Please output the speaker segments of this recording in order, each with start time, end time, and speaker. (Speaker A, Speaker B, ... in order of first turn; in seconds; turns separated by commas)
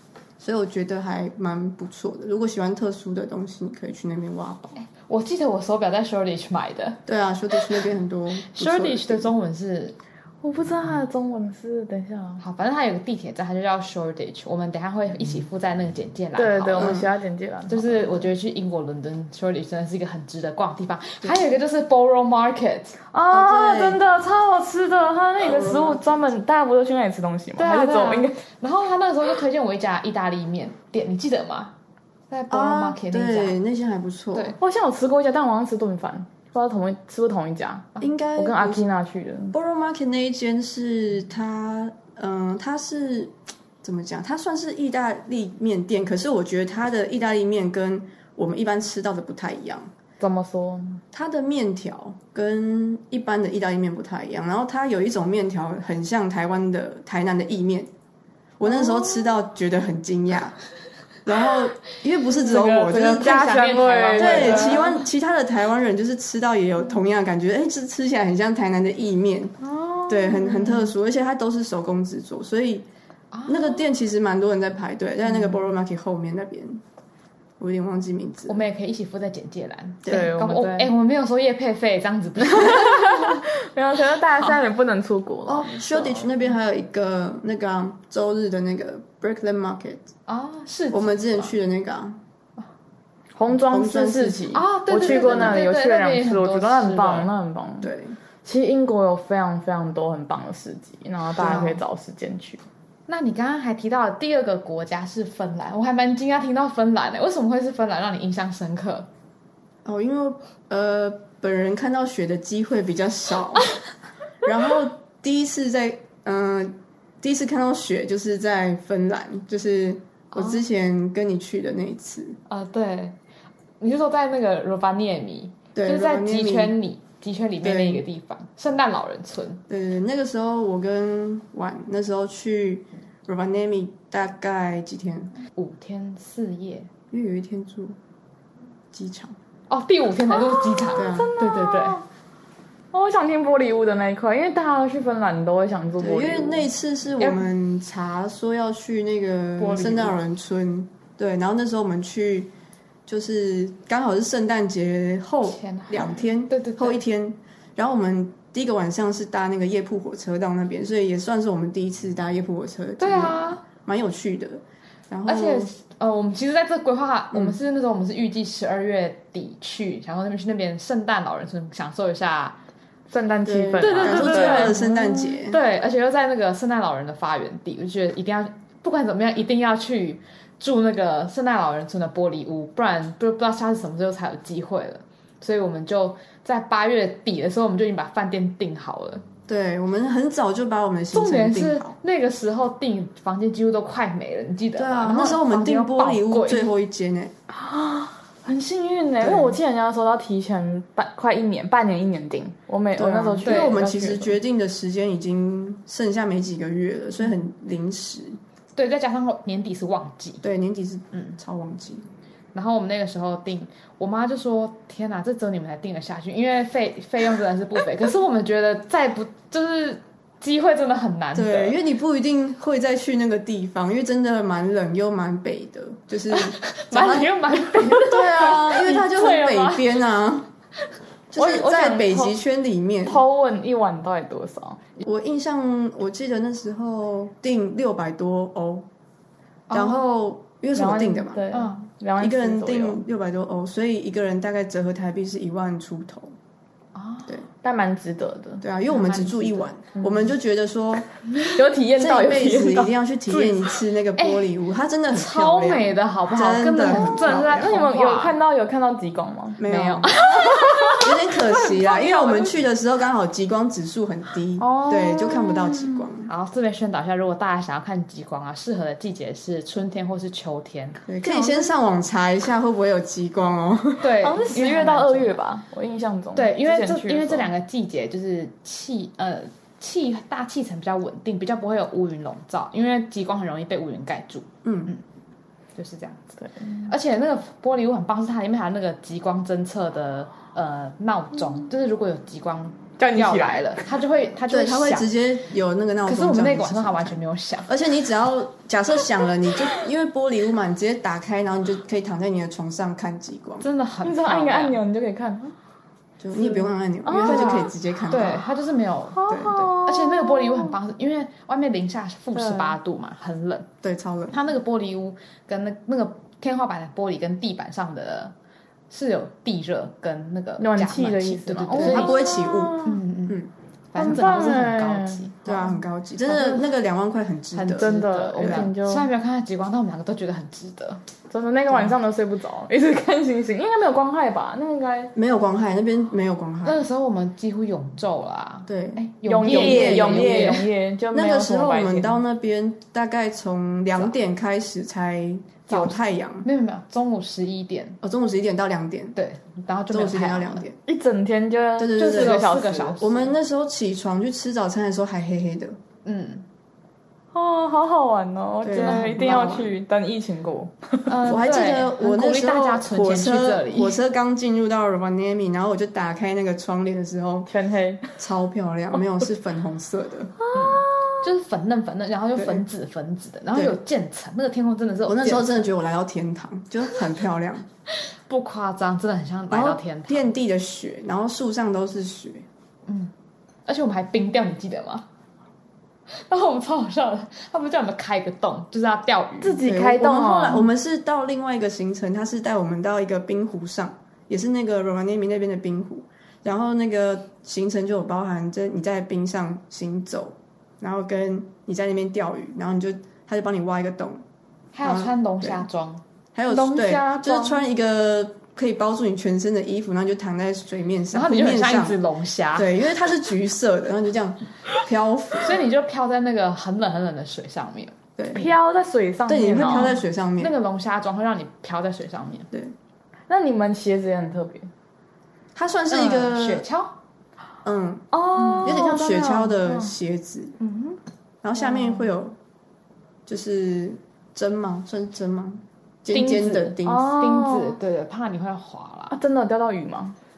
Speaker A: 0.4-4.8, Speaker B: 4.7-7.0, Speaker A: 7.0-9.3, Speaker B: 8.4-10.0, Speaker C: 10.4-12.4, Speaker B: 12.4-17.0, Speaker C: 16.4-18.1, Speaker A: 16.8-17.1, Speaker B: 17.7-23.0, Speaker C: 23.1-28.4, Speaker A: 23.3-24.0, Speaker A: 25.4-26.2, Speaker B: 27.6-31.7, Speaker B: 32.3-33.6, Speaker A: 32.5-34.5, Speaker C: 34.6-39.5, Speaker A: 38.0-38.9, Speaker A: 39.5-49.9, Speaker C: 50.2-51.0, Speaker A: 51.1-57.9, Speaker A: 58.6-60.6, Speaker A: 61.2-69.5, Speaker C: 62.4-64.9, Speaker B: 63.2-65.0, Speaker C: 69.6-70.9, Speaker A: 70.1-72.9, Speaker B: 73.3-73.8, Speaker A: 73.5-76.8, Speaker B: 75.3-75.6, Speaker A: 77.6-78.6, Speaker B: 78.5-83.4, Speaker A: 80.0-80.3, Speaker C: 80.1-80.9, Speaker C: 82.5-86.2, Speaker A: 85.5-90.1, Speaker B: 90.3-91.5, Speaker A: 90.9-92.2, Speaker C: 93.3-97.9, Speaker A: 93.5-95.6, Speaker B: 94.5-97.3, Speaker A: 97.8-98.2, Speaker C: 98.4-102.6, Speaker A: 101.4-101.8, Speaker B: 101.4-101.8, Speaker B: 103.1-109.1, Speaker A: 109.8-113.7, Speaker A: 114.4-122.4, Speaker B: 120.3-120.6, Speaker B: 122.5-123.2, Speaker B: 123.8-129.6, Speaker A: 125.7-126.8, Speaker A: 127.6-128.0, Speaker A: 129.7-135.3, Speaker B: 135.5-136.9, Speaker A: 137.1-138.0, Speaker A: 138.9-139.3, Speaker B: 139.7-142.0, Speaker C: 140.3-142.0, Speaker A: 140.9-141.3, Speaker C: 142.9-146.6, Speaker A: 146.0-152.5, Speaker B: 147.2-147.4, Speaker B: 149.6-150.2, Speaker A: 153.1-165.7, Speaker B: 155.4-157.0, Speaker B: 163.0-163.6, Speaker B: 165.3-172.6, Speaker A: 167.3-167.6, Speaker C: 173.1-175.3, Speaker A: 173.4-175.6, Speaker B: 173.8-174.8, Speaker B: 175.4-189.2, Speaker A: 189.5-191.9, Speaker B: 191.1-196.7, Speaker A: 194.8-197.3, Speaker C: 197.5-204.3, Speaker A: 199.2-199.6, Speaker A: 202.9-208.4, Speaker B: 203.4-203.8, Speaker B: 208.8-210.4, Speaker A: 210.4-212.1, Speaker B: 212.5-221.8, Speaker A: 221.3-230.5, Speaker B: 226.3-229.9, Speaker A: 231.3-233.2, Speaker C: 231.3-232.3, Speaker C: 233.1-234.8, Speaker A: 235.0-238.9, Speaker B: 239.7-240.0, Speaker A: 239.7-241.4, Speaker C: 240.8-243.0, Speaker B: 241.5-241.8, Speaker A: 242.2-246.3, Speaker B: 246.9-247.4, Speaker C: 247.6-248.6, Speaker A: 248.6-251.1, Speaker B: 248.9-249.7, Speaker C: 251.4-253.7, Speaker A: 251.9-257.7, Speaker B: 254.2-254.5, Speaker B: 255.1-258.4, Speaker C: 256.8-259.6, Speaker A: 259.6-260.1, Speaker B: 259.6-262.5, Speaker C: 260.3-261.1, Speaker A: 261.0-266.3, Speaker C: 264.6-266.1, Speaker B: 266.3-271.0, Speaker A: 271.1-274.2, Speaker C: 271.2-271.7, Speaker B: 274.0-275.4, Speaker C: 274.2-277.5, Speaker B: 276.3-285.0, Speaker A: 284.6-284.9, Speaker B: 285.8-286.2, Speaker C: 286.4-286.9, Speaker B: 286.8-295.1, Speaker C: 293.0-293.8, Speaker A: 294.5-303.6, Speaker B: 296.1-297.7, Speaker B: 303.6-304.8, Speaker C: 304.0-305.5, Speaker A: 306.2-308.5, Speaker C: 306.3-307.7, Speaker B: 307.2-313.7, Speaker C: 309.1-310.7, Speaker A: 309.3-309.6, Speaker C: 312.3-312.8, Speaker A: 313.8-314.4, Speaker B: 314.3-318.3, Speaker B: 318.9-322.2, Speaker C: 320.6-323.0, Speaker A: 321.7-323.5, Speaker B: 322.8-326.6, Speaker C: 323.9-325.3, Speaker A: 325.4-328.7, Speaker B: 327.5-331.0, Speaker C: 327.7-329.1, Speaker C: 331.3-335.1, Speaker A: 335.1-336.8, Speaker B: 336.6-340.6, Speaker A: 338.7-346.5, Speaker C: 339.2-342.2, Speaker B: 345.7-348.0, Speaker A: 348.0-349.1, Speaker B: 349.1-350.6, Speaker A: 349.9-350.8, Speaker C: 350.9-352.9, Speaker A: 351.8-355.8, Speaker B: 352.0-353.3, Speaker B: 356.0-356.4, Speaker C: 357.3-361.2, Speaker A: 358.6-359.7, Speaker B: 358.8-359.6, Speaker B: 361.1-364.0, Speaker A: 361.2-367.5, Speaker C: 367.5-368.2, Speaker A: 368.2-370.3, Speaker C: 370.4-371.2, Speaker B: 370.5-375.7, Speaker A: 372.4-372.6, Speaker A: 373.5-373.8, Speaker A: 375.1-377.6, Speaker B: 378.2-380.3, Speaker A: 379.5-382.5, Speaker B: 382.9-383.1, Speaker B: 383.7-385.1, Speaker B: 386.1-389.6, Speaker C: 389.4-390.7, Speaker A: 389.6-404.2, Speaker B: 404.7-406.0, Speaker A: 404.8-405.7, Speaker A: 406.3-412.0, Speaker C: 406.5-407.6, Speaker B: 411.1-412.8, Speaker A: 412.5-415.6, Speaker B: 415.4-417.9, Speaker A: 418.2-418.5, Speaker C: 418.3-420.0, Speaker A: 419.3-420.5, Speaker B: 419.8-422.5, Speaker C: 423.3-424.7, Speaker A: 425.5-426.6, Speaker B: 425.9-426.9, Speaker A: 427.6-428.1, Speaker C: 428.1-429.6, Speaker B: 428.4-429.1, Speaker A: 428.6-430.6, Speaker B: 430.6-431.0, Speaker A: 431.4-432.4, Speaker B: 431.6-432.1, Speaker A: 433.3-437.1, Speaker B: 436.1-439.2, Speaker C: 436.8-437.8, Speaker C: 439.1-440.1